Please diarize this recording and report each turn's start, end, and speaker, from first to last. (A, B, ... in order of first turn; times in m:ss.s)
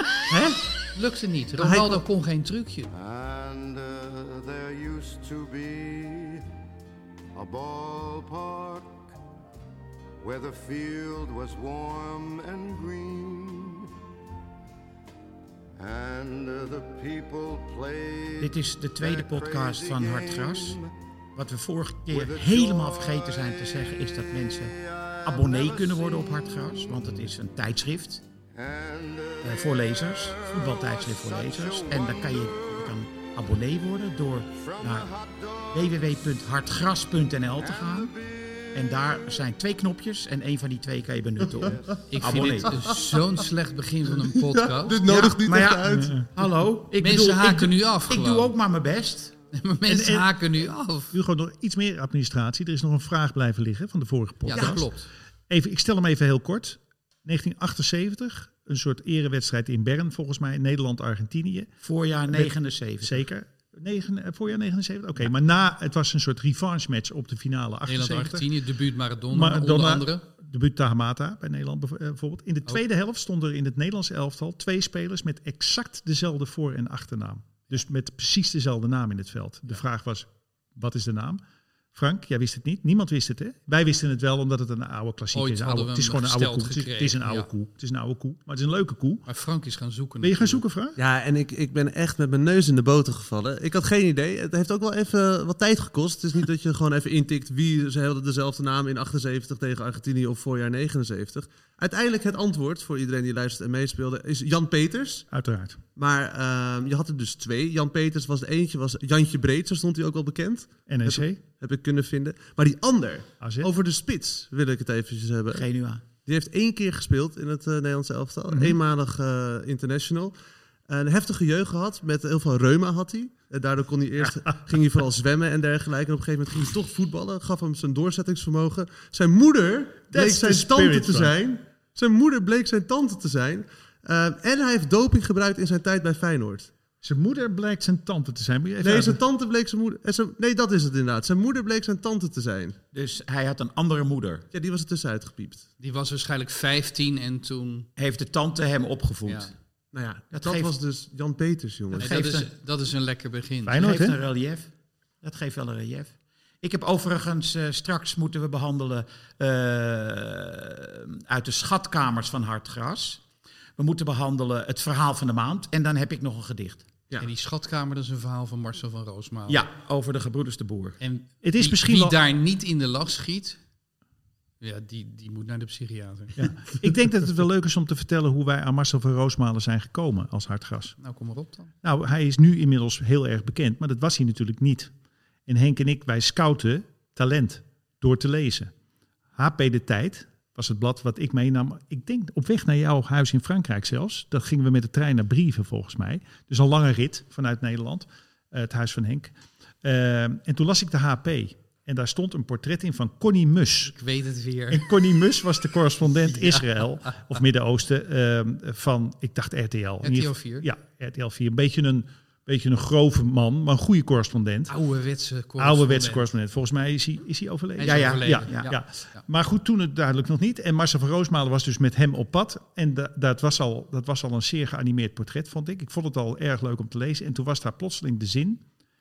0:00.3-0:00.6 A
0:00.9-0:02.9 B
0:01.6-0:02.0 A
0:02.9-0:06.4 C
0:07.3-0:09.1 C
0:10.2-0:13.9 C
0:15.8-0:20.9 C
0:18.4-0:20.8 D
0:21.4-0:28.2 D
0:22.1-0:23.5 C
0:24.8-0:27.2 C
0:28.5-0:33.0 C
0:29.4-0:35.1 D
0:34.6-0:36.3 C
0:35.7-0:38.1 D
0:37.6-0:39.0 C
0:38.7-0:43.0 D
0:41.6-0:42.0 C
0:42.1-0:45.0 B
0:44.2-0:46.1 A
0:45.0-0:49.3 D
0:47.0-0:48.5 B
0:49.5-0:51.2 B
0:49.9-0:50.4 E
0:51.1-1:01.7 E
0:54.4-0:55.1 B
0:54.5-0:54.8 A
1:01.8-1:03.2 D
1:02.3-1:08.5 E
1:07.8-1:10.2 B
1:09.3-1:21.4 E
1:21.9-1:29.3 E
1:25.3-1:27.5 B
1:29.2-1:30.6 B
1:30.2-1:31.0 E
1:31.0-1:45.2 A
1:45.3-1:45.8 E
1:46.0-1:55.6 A
1:50.9-1:51.4 E
1:53.4-1:53.7 E
1:55.5-1:56.0 D
1:56.2-2:00.3 A
1:58.5-1:58.8 E
2:00.9-2:16.7 A
2:10.1-2:11.3 E
2:17.0-2:19.2 E
2:18.8-2:22.8 A
2:22.9-2:24.4 D
2:24.5-2:25.6 A
2:25.8-2:27.9 B
2:28.0-2:29.5 D
2:29.9-2:32.1 A
2:30.3-2:30.7 D
2:31.9-2:32.5 D
2:32.0-2:33.8 B
2:33.6-2:34.2 E
2:33.8-2:34.7 D
2:35.2-2:43.2 D
2:43.8-2:46.8 D
2:47.2-2:49.6 B
2:49.5-2:51.0 D
2:51.0-2:53.6 B
2:51.4-2:52.2 E
2:54.6-2:56.4 B
2:56.4-3:01.0 E
3:01.0-3:01.7 B
3:01.8-3:04.9 E
3:05.4-3:08.7 E
3:09.4-3:23.9 E
3:23.8-3:24.9 B
3:24.7-3:34.7 E
3:26.2-3:27.4 B
3:30.0-3:30.7 B
3:34.7-3:36.3 B
3:35.6-3:48.6 E
3:37.8-3:39.2 B
3:37.8-3:38.7 D